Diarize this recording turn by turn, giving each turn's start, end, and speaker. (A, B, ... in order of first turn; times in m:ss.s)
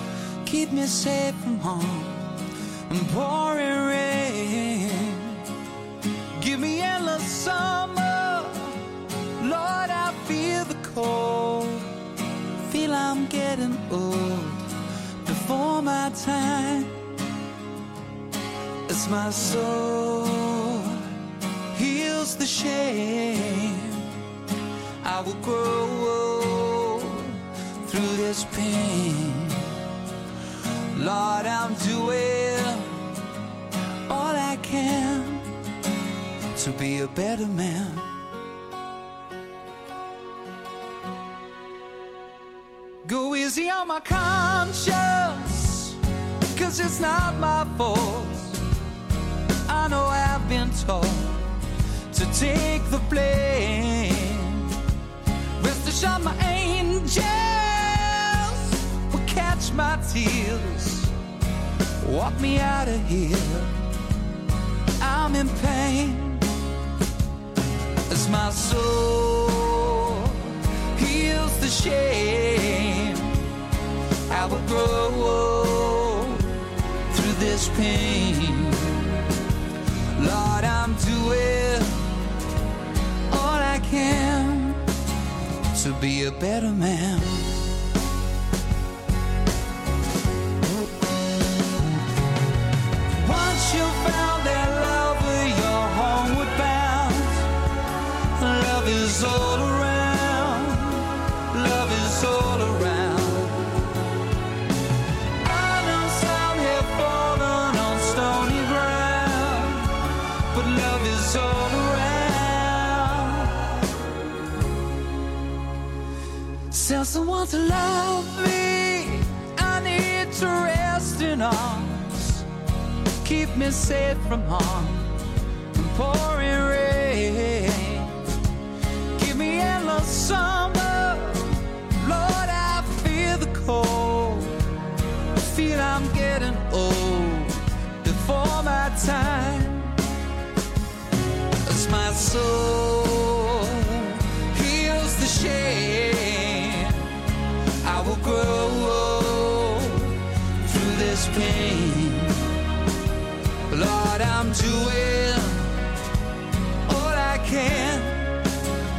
0:00.4-0:02.4 A
0:02.9-0:05.5 A
0:06.4-0:08.8 A
0:09.4-0:11.9 A
0:12.6-0:17.0 A
0:18.9-0:21.2 A
0:21.7-0:24.1 A
0:25.0-0:29.8 A
0:30.9-0:33.1 A
0:34.1-0:35.5 A
0:36.5-0:38.1 A
0:43.0-0:46.0 A
0:46.5-0:48.6 A
0:49.6-0:54.9 A
0:55.6-1:01.1 A
1:02.0-1:03.8 A
1:05.0-1:06.5 A
1:08.1-1:13.5 A
1:14.3-1:19.4 A
1:20.1-1:22.2 A
1:23.3-1:24.9 A
1:25.7-1:27.7 A
1:33.1-1:37.6 A
1:38.3-1:43.9 A
1:45.4-1:53.9 A
1:56.7-2:02.5 A
2:03.2-2:08.4 A
2:09.1-2:14.7 A
2:15.3-2:20.0 A
2:21.6-2:32.6 A
2:33.7-2:35.9 A
2:36.8-2:38.5 A